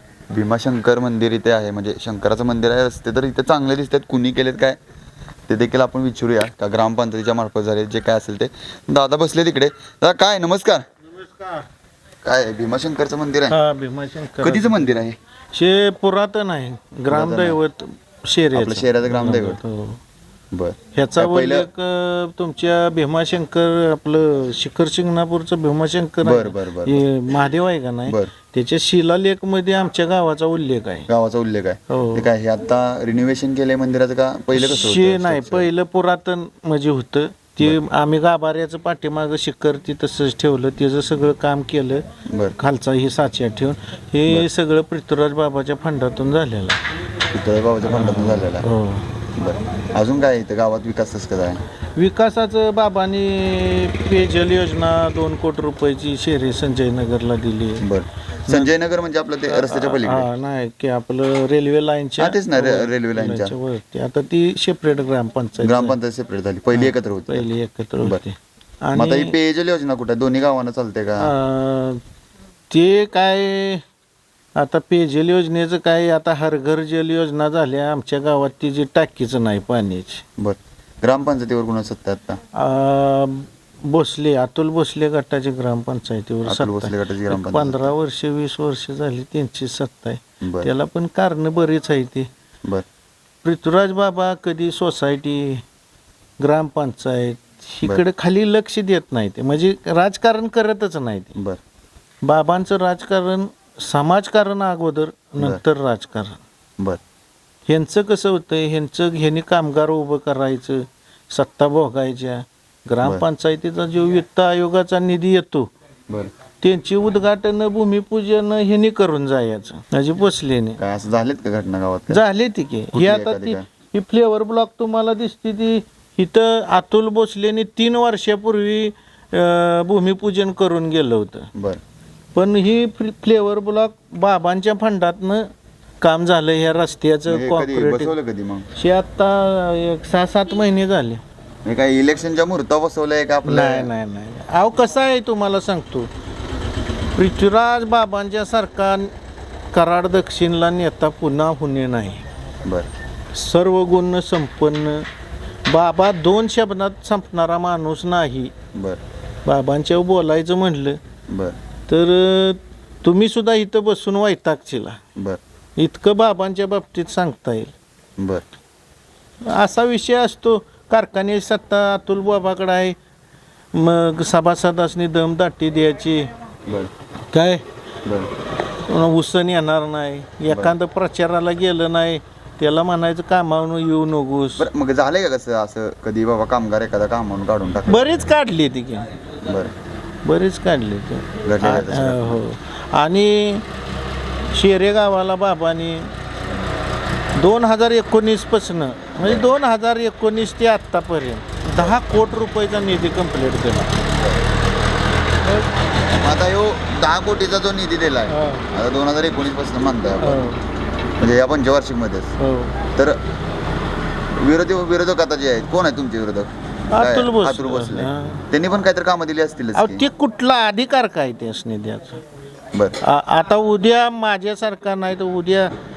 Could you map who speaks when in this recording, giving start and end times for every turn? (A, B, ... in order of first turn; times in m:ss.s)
0:00.3-0:04.8 A
0:05.5-0:10.8 A
0:11.4-0:11.6 B
0:12.2-0:13.6 A
0:13.5-0:14.9 B
0:14.4-0:15.2 A
0:15.5-0:20.0 B
0:17.1-0:17.6 A
0:18.5-0:19.6 A
0:20.5-0:21.7 A
0:20.9-0:31.1 B
0:26.2-0:27.1 A
0:31.1-0:35.7 A
0:31.9-0:32.3 B
0:34.5-0:42.1 B
0:42.3-0:42.5 A
0:42.6-0:46.8 B
0:47.3-0:48.7 A
0:47.9-0:49.1 B
0:49.4-0:51.6 A
0:52.0-0:57.9 B
0:57.8-1:00.3 A
0:59.5-1:06.0 B
1:02.2-1:03.5 A
1:05.6-1:07.5 A
1:06.7-1:09.3 B
1:08.9-1:11.3 A
1:11.2-1:12.0 B
1:12.7-1:13.8 B
1:14.6-1:20.2 B
1:20.4-1:22.4 A
1:22.6-1:32.3 B
1:26.4-1:27.9 A
1:30.4-1:30.7 A
1:33.4-1:35.6 B
1:36.4-1:41.3 B
1:42.2-1:46.4 B
1:47.7-1:55.7 B
1:56.6-2:00.8 B
2:00.8-2:02.2 A
2:02.1-2:11.5 B
2:02.9-2:03.7 A
2:11.6-2:11.8 A
2:12.4-2:18.1 B
2:17.3-2:18.7 A
2:18.8-2:21.2 B
2:21.6-2:23.9 A
2:23.4-2:26.1 B
2:27.2-2:29.1 B
2:29.7-2:32.2 B
2:32.6-2:32.9 A
2:33.3-2:35.1 B
2:35.7-2:38.5 B
2:38.7-2:39.0 A
2:39.4-2:41.0 B
2:41.3-2:41.6 A
2:41.9-2:45.0 B
2:45.8-2:47.7 B
2:48.2-2:48.4 A
2:49.4-2:53.0 B
2:53.7-2:56.3 B
2:57.3-2:57.6 B
2:58.0-2:58.3 A
2:58.9-3:04.7 B
3:00.5-3:00.7 A
3:04.6-3:08.1 A
3:07.9-3:09.1 B
3:09.4-3:09.7 A
3:10.2-3:13.7 B
3:11.4-3:12.4 A
3:14.5-3:16.1 B
3:17.4-3:24.0 B
3:19.2-3:19.5 A
3:24.1-3:24.4 A
3:26.1-3:30.4 A
3:28.3-3:28.6 B
3:30.2-3:30.6 B
3:31.2-3:32.3 A
3:32.4-3:32.8 B
3:32.9-3:33.2 A
3:34.3-3:40.1 A
3:36.9-3:38.4 B
3:39.8-3:42.2 B
3:42.7-3:43.0 A
3:43.0-3:45.7 B